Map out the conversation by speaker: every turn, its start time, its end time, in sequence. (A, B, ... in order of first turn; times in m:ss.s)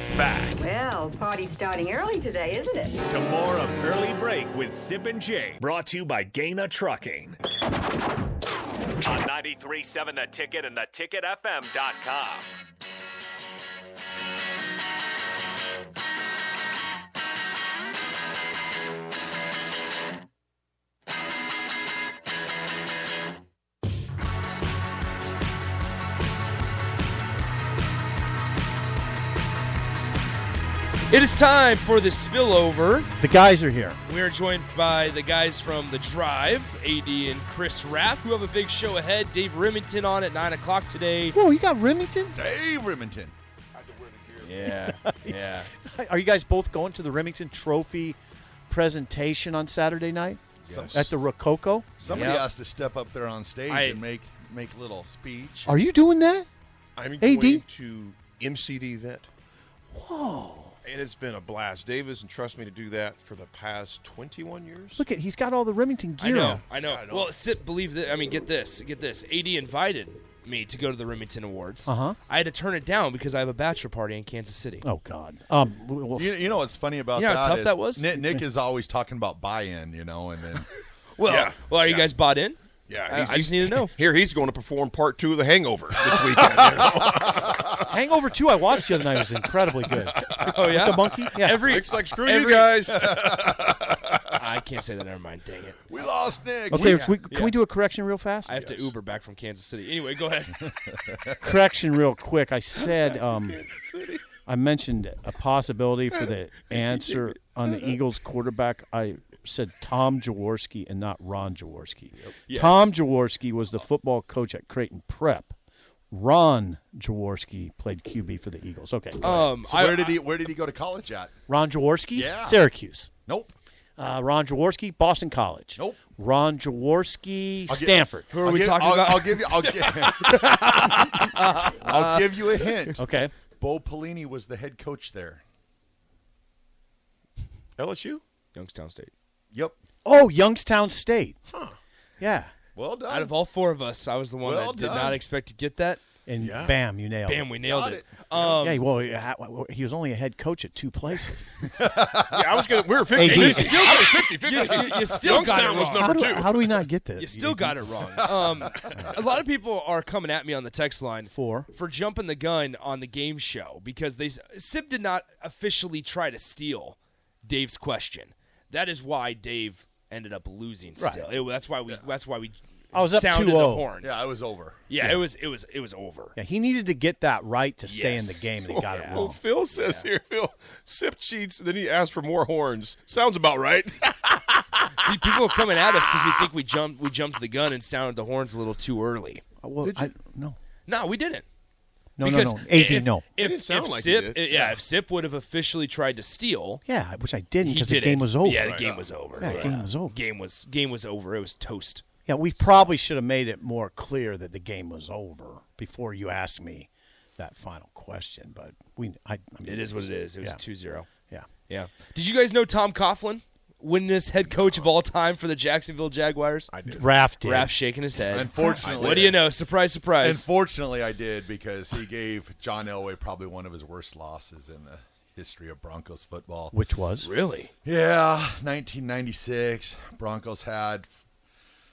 0:00.1-0:00.6 A
0:00.6-0:03.0 B
0:03.0-0:07.4 A
0:09.0-0:12.5 A
0:31.1-0:33.1 C
0:33.2-0:34.0 D
0:34.0-0:41.4 C
0:41.3-0:42.4 D
0:42.3-0:43.3 E
0:43.7-0:44.6 F
0:44.4-0:45.7 C
0:44.7-0:48.2 D
0:48.7-0:52.1 D
0:50.7-0:51.2 F
0:50.7-0:51.1 E
0:52.0-0:55.7 E
0:52.1-0:52.5 C
0:52.1-0:52.4 F
0:53.7-0:54.0 C
0:55.6-0:56.5 D
0:57.0-0:59.3 F
0:57.2-0:57.6 D
0:59.9-1:00.8 D
1:00.8-1:05.0 F
1:05.0-1:06.6 D
1:06.2-1:14.8 C
1:06.8-1:07.3 F
1:11.9-1:12.2 D
1:14.8-1:16.4 D
1:16.1-1:20.7 E
1:17.1-1:18.1 C
1:21.2-1:23.9 C
1:21.2-1:22.1 F
1:22.9-1:27.5 F
1:26.0-1:27.6 E
1:27.8-1:31.9 D
1:29.0-1:29.2 F
1:29.9-1:30.5 F
1:30.5-1:32.8 C
1:31.5-1:34.2 F
1:32.3-1:33.5 E
1:34.4-1:35.8 C
1:35.9-1:37.0 E
1:36.7-1:38.8 D
1:36.7-1:37.6 C
1:38.4-1:40.7 C
1:41.0-1:41.4 E
1:41.4-1:43.6 D
1:42.8-1:44.2 F
1:44.4-1:55.5 D
1:52.2-1:52.9 C
1:56.1-1:59.5 D
1:59.2-2:00.2 C
1:59.6-2:01.3 E
2:01.5-2:03.1 D
2:02.1-2:02.6 E
2:03.3-2:03.5 E
2:04.0-2:08.3 D
2:07.7-2:10.3 E
2:08.3-2:12.8 C
2:11.8-2:13.0 E
2:13.0-2:13.3 D
2:13.6-2:15.4 E
2:17.8-2:18.2 F
2:18.5-2:19.1 C
2:19.5-2:19.8 E
2:20.0-2:21.4 D
2:21.5-2:21.8 F
2:22.2-2:22.5 D
2:22.7-2:23.3 E
2:23.1-2:26.0 C
2:24.4-2:25.2 E
2:26.2-2:27.6 D
2:26.4-2:26.8 F
2:27.2-2:28.8 C
2:27.6-2:28.1 E
2:28.5-2:31.7 D
2:31.8-2:32.8 E
2:32.3-2:36.7 F
2:33.1-2:34.3 D
2:33.2-2:36.3 C
2:35.8-2:37.9 D
2:37.2-2:54.2 C
2:41.3-2:41.7 D
2:51.0-2:51.3 D
2:52.9-2:53.9 D
2:54.0-2:54.8 E
2:54.9-2:56.3 C
2:56.4-2:59.4 D
2:57.9-3:00.1 C
2:58.6-3:04.8 F
3:05.0-3:10.1 C
3:09.6-3:10.6 D
3:10.8-3:11.4 C
3:12.2-3:13.2 D
3:12.2-3:16.8 C
3:13.4-3:14.8 F
3:16.8-3:20.1 D
3:17.6-3:22.0 C
3:18.6-3:19.7 F
3:22.2-3:30.6 D
3:22.6-3:22.9 C
3:29.6-3:31.1 C
3:31.2-3:31.5 D
3:31.7-3:36.7 C
3:36.7-3:37.1 F
3:36.9-3:37.7 D
3:37.4-3:40.4 C
3:38.3-3:39.4 E
3:38.6-3:39.2 D
3:40.2-3:46.7 E
3:46.7-3:47.3 D
3:47.2-3:47.7 C
3:47.8-3:51.1 E